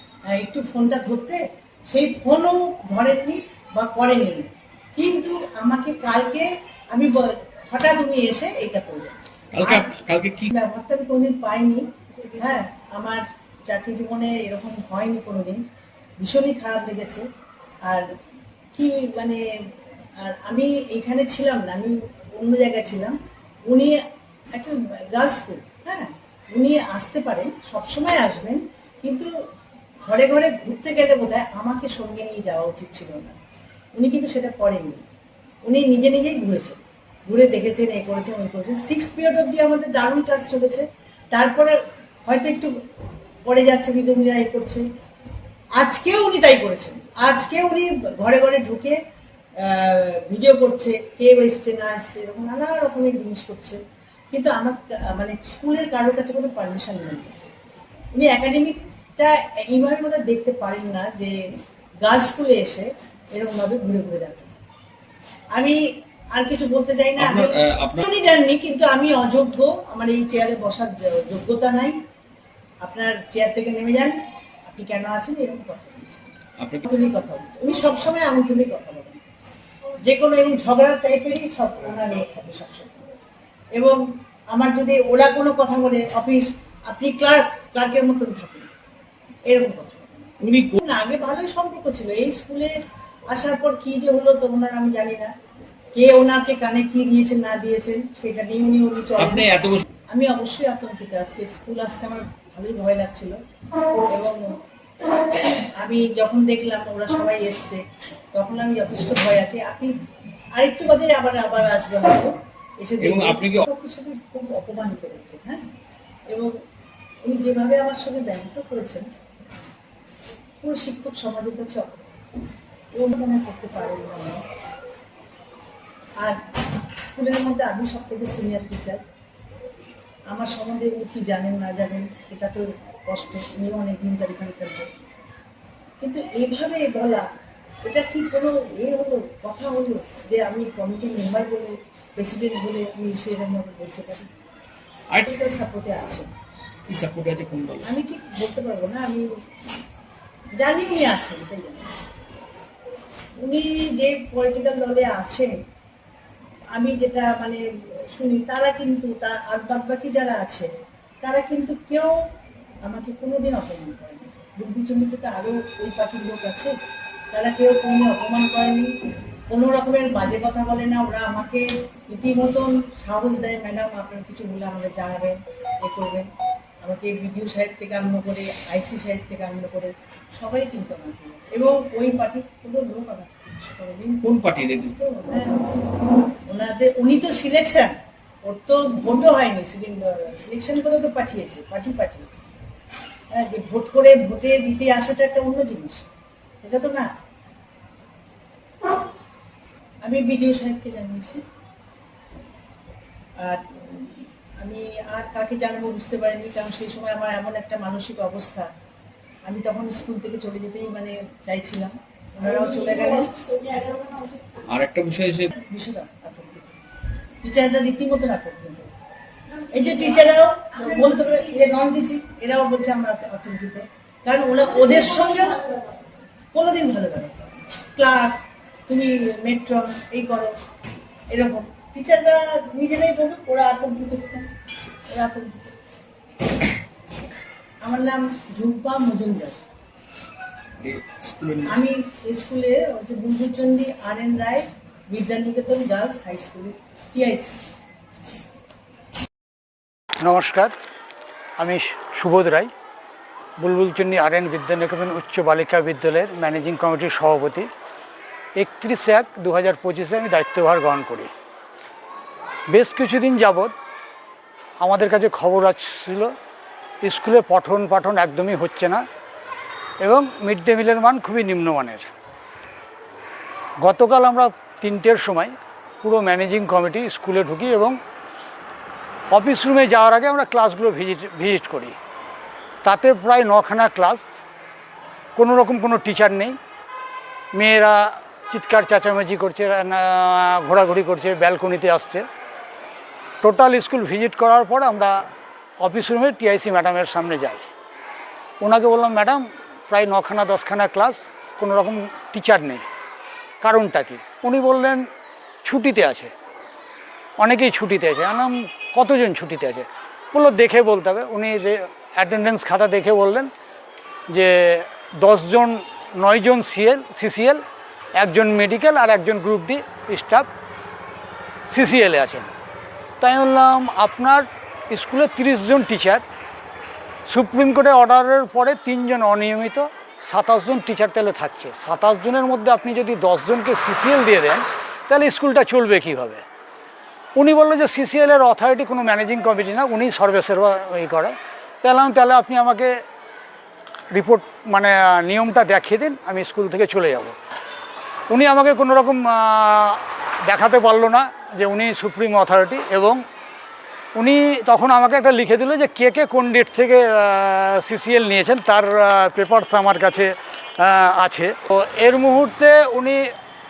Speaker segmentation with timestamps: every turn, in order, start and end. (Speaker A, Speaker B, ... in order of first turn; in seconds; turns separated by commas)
Speaker A: 0.3-9.9, Speaker B: 9.5-10.5, Speaker A: 10.5-15.6, Speaker A: 16.2-17.2, Speaker A: 18.8-19.4, Speaker A: 20.2-24.0, Speaker A: 24.5-29.3, Speaker A: 30.0-33.4, Speaker A: 34.0-35.0, Speaker A: 35.6-42.7, Speaker A: 43.4-44.9, Speaker A: 45.8-49.0, Speaker A: 49.6-53.8, Speaker A: 54.3-57.5, Speaker A: 58.1-61.4, Speaker A: 62.0-64.5, Speaker A: 65.5-72.0, Speaker B: 67.2-68.0, Speaker A: 72.8-76.3, Speaker B: 76.6-76.9, Speaker A: 76.8-79.2, Speaker A: 80.0-83.0, Speaker A: 83.7-88.7, Speaker A: 89.5-92.7, Speaker B: 90.4-90.8, Speaker A: 93.3-95.3, Speaker A: 96.0-103.4, Speaker B: 99.2-99.8, Speaker A: 104.1-104.6, Speaker A: 105.8-107.8, Speaker A: 108.3-109.9, Speaker A: 110.5-115.6, Speaker B: 113.0-113.7, Speaker A: 117.2-119.1, Speaker A: 120.6-122.0, Speaker A: 122.9-124.4, Speaker A: 127.1-129.0, Speaker A: 130.3-134.9, Speaker A: 136.0-137.3, Speaker A: 137.8-144.3, Speaker A: 145.2-146.3, Speaker B: 146.9-147.9, Speaker A: 147.8-149.3, Speaker A: 150.6-151.9, Speaker A: 153.4-155.5, Speaker A: 156.7-160.7, Speaker A: 161.2-162.1, Speaker A: 162.8-166.7, Speaker A: 167.3-168.9, Speaker A: 169.5-176.3, Speaker A: 176.8-184.3, Speaker B: 184.2-184.9, Speaker A: 184.9-185.7, Speaker A: 186.5-192.4, Speaker A: 193.3-196.1, Speaker A: 196.6-197.1, Speaker A: 200.0-201.4, Speaker A: 203.4-208.7, Speaker A: 209.4-213.7, Speaker B: 214.7-215.5, Speaker A: 215.5-216.8, Speaker A: 217.4-218.9, Speaker A: 219.7-225.8, Speaker A: 226.5-230.5, Speaker A: 231.3-234.5, Speaker A: 235.1-235.6, Speaker A: 237.8-239.6, Speaker B: 240.8-241.8, Speaker A: 241.6-247.5, Speaker C: 250.2-250.7, Speaker C: 251.6-252.7, Speaker C: 253.6-257.7, Speaker C: 258.6-261.3, Speaker C: 262.7-263.7, Speaker C: 264.8-266.3, Speaker C: 267.0-269.0, Speaker C: 270.0-272.1, Speaker C: 273.8-278.0, Speaker C: 279.3-281.9, Speaker C: 282.8-284.3, Speaker C: 285.4-286.6, Speaker C: 287.5-292.2, Speaker C: 293.4-295.2, Speaker C: 295.8-297.6, Speaker C: 298.6-302.9, Speaker C: 303.6-305.1, Speaker C: 305.6-306.3, Speaker C: 307.4-313.5, Speaker C: 314.3-317.6, Speaker C: 318.1-320.5, Speaker C: 321.7-322.5, Speaker C: 323.2-326.2, Speaker C: 327.3-336.4, Speaker C: 337.4-342.9, Speaker C: 344.1-347.4, Speaker C: 348.3-353.2, Speaker C: 354.2-363.3